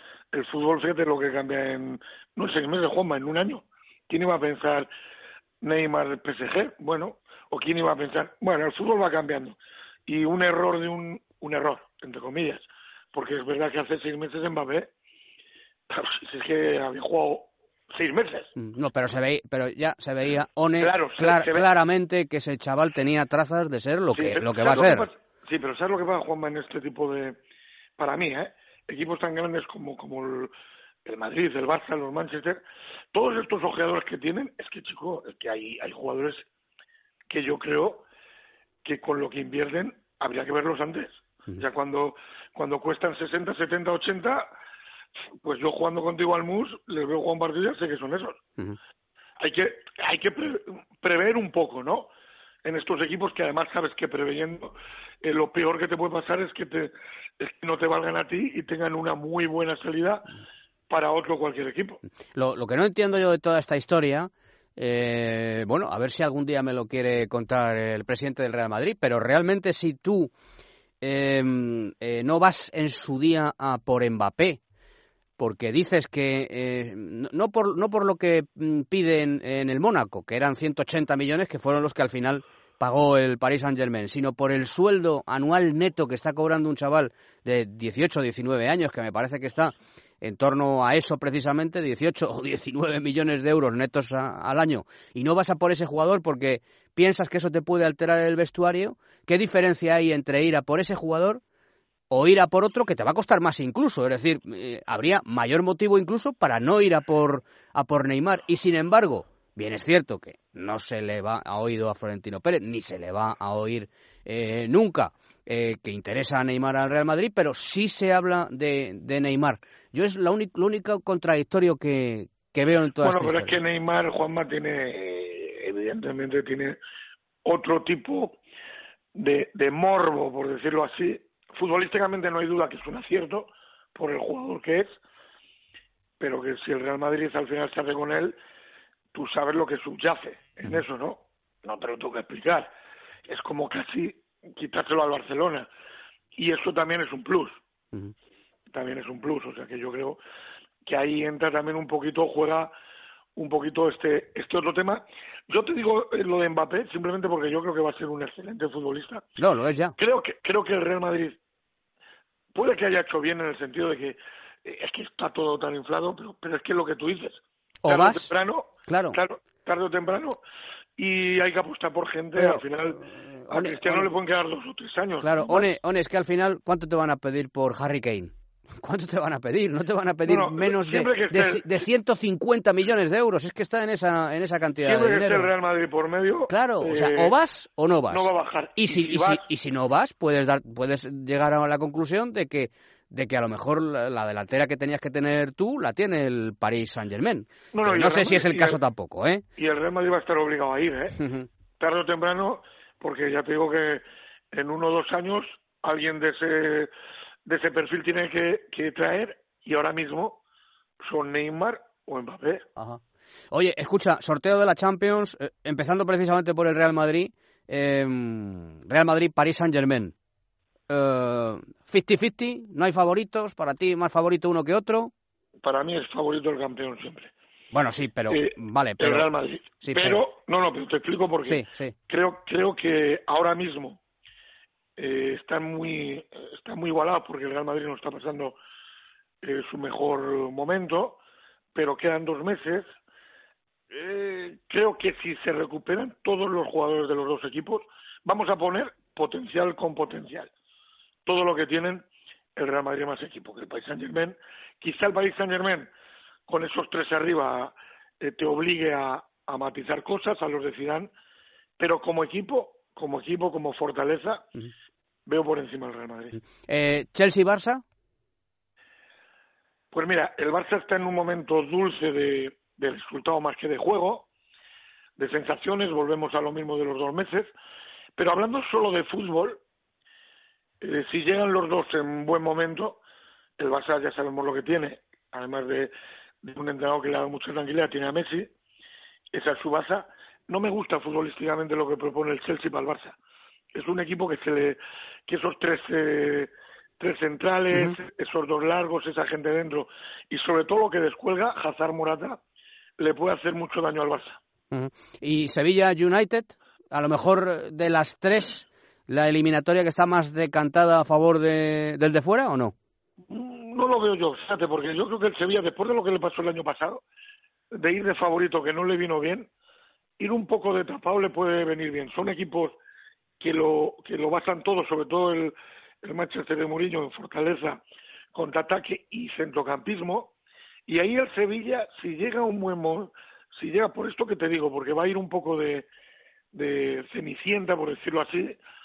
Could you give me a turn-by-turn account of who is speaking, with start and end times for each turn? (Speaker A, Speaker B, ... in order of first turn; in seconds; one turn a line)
Speaker A: 0.3-4.9
Speaker A: 5.6-14.9
Speaker A: 15.9-18.5
Speaker B: 18.6-25.1
Speaker A: 20.8-21.7
Speaker A: 24.1-27.4
Speaker A: 28.0-30.5
Speaker A: 31.1-32.6
Speaker A: 33.1-36.4
Speaker A: 37.3-38.0
Speaker A: 38.8-44.5
Speaker A: 45.4-48.4
Speaker A: 49.4-52.1
Speaker A: 52.6-60.3
Speaker A: 60.9-62.0
Speaker B: 62.3-70.3
Speaker B: 71.0-74.6
Speaker B: 75.4-101.4
Speaker B: 102.1-123.5
Speaker A: 123.0-126.8
Speaker A: 127.5-128.4
Speaker A: 129.2-134.9
Speaker A: 136.2-138.4
Speaker A: 139.1-142.7
Speaker A: 143.3-145.7
Speaker A: 146.3-147.6
Speaker A: 148.7-150.2
Speaker A: 150.8-152.7
Speaker A: 153.4-159.3
Speaker B: 159.4-160.0
Speaker A: 160.0-161.4
Speaker A: 162.5-170.4
Speaker B: 167.8-168.3
Speaker B: 168.9-169.2
Speaker A: 171.0-175.7
Speaker B: 172.4-174.1
Speaker B: 175.2-185.5
Speaker A: 180.2-181.8
Speaker A: 184.8-187.3
Speaker B: 186.5-199.4
Speaker A: 188.1-189.4
Speaker A: 197.7-198.8
Speaker A: 199.6-201.2
Speaker B: 201.2-201.5
Speaker A: 201.8-206.9
Speaker A: 207.5-210.4
Speaker A: 211.0-212.7
Speaker B: 213.5-220.1
Speaker B: 220.9-225.1
Speaker A: 225.6-227.3
Speaker B: 227.7-229.3
Speaker A: 228.3-234.0
Speaker B: 229.8-230.2
Speaker B: 231.4-231.9
Speaker A: 235.0-238.6
Speaker A: 239.4-241.2
Speaker A: 241.8-242.9
Speaker A: 243.9-250.5
Speaker A: 251.3-255.9
Speaker A: 256.5-261.1
Speaker A: 261.8-264.5
Speaker A: 265.3-266.4
Speaker B: 266.6-267.8
Speaker A: 269.9-274.3
Speaker A: 275.2-277.5
Speaker A: 278.2-279.6
Speaker A: 280.8-283.0
Speaker A: 283.6-285.9
Speaker A: 286.4-288.5
Speaker A: 289.3-293.1
Speaker A: 293.7-302.4
Speaker B: 297.7-298.0
Speaker A: 303.0-304.4
Speaker B: 304.7-312.8
Speaker A: 313.3-317.0
Speaker A: 317.7-319.5
Speaker A: 320.2-322.8
Speaker A: 323.4-327.8
Speaker A: 328.3-330.3
Speaker A: 330.9-335.9
Speaker A: 336.5-338.6